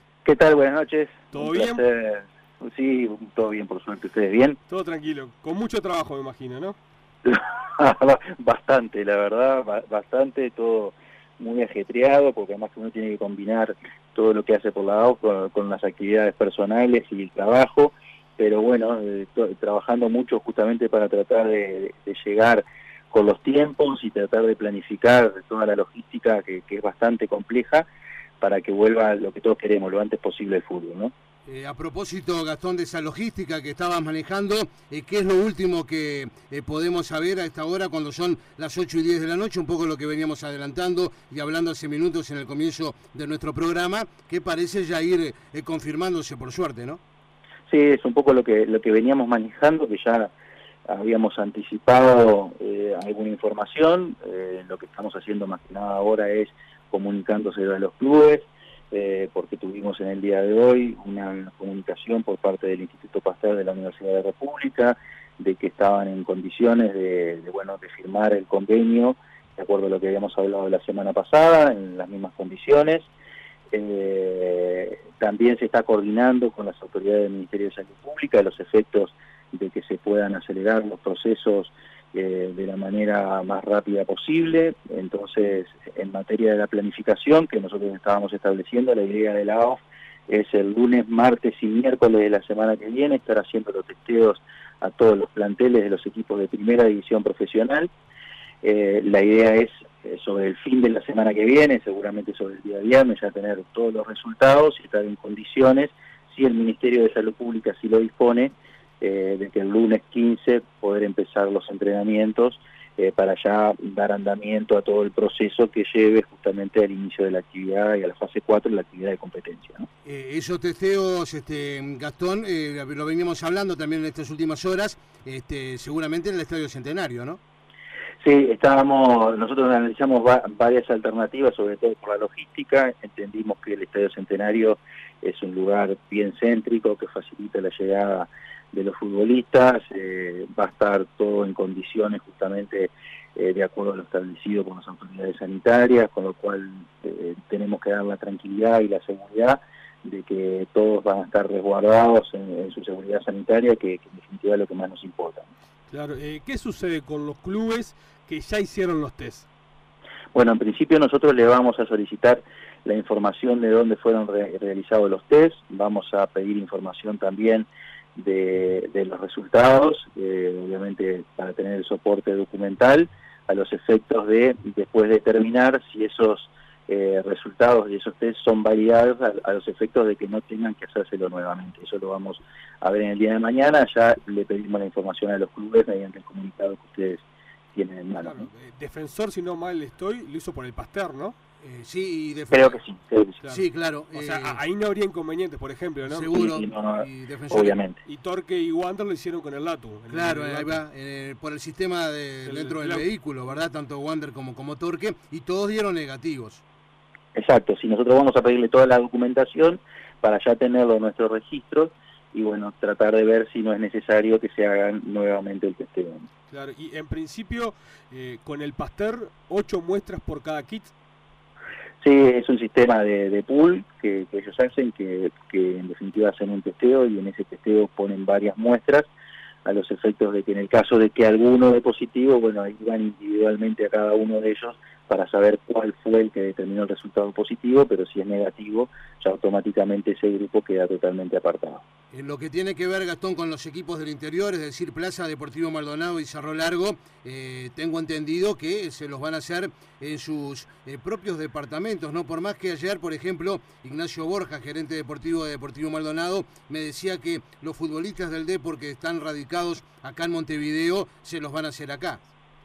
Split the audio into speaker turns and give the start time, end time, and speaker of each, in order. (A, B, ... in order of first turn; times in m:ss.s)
0:00.2-0:04.6 A
0:01.3-0:01.8 B
0:04.7-0:06.8 B
0:07.2-0:27.9 A
0:28.4-0:31.1 A
0:31.5-0:47.0 C
0:47.7-0:50.3 A
0:50.9-1:13.1 A
1:13.7-1:37.9 A
1:38.6-1:59.9 A
2:00.0-2:07.4 C
2:08.2-2:35.5 A
2:35.9-2:39.5 B
2:40.3-3:08.5 A
3:08.2-3:11.4 B
3:11.6-3:12.8 C
3:12.5-3:13.4 A
3:13.4-3:16.3 B
3:13.5-3:14.6 C
3:16.1-3:17.8 C
3:16.3-3:18.0 A
3:18.1-3:20.8 B
3:20.1-3:26.6 C
3:22.4-3:23.1 B
3:27.4-3:36.3 A
3:36.5-3:40.9 B
3:42.0-3:49.1 A
3:49.6-4:01.8 A
4:02.1-4:22.2 C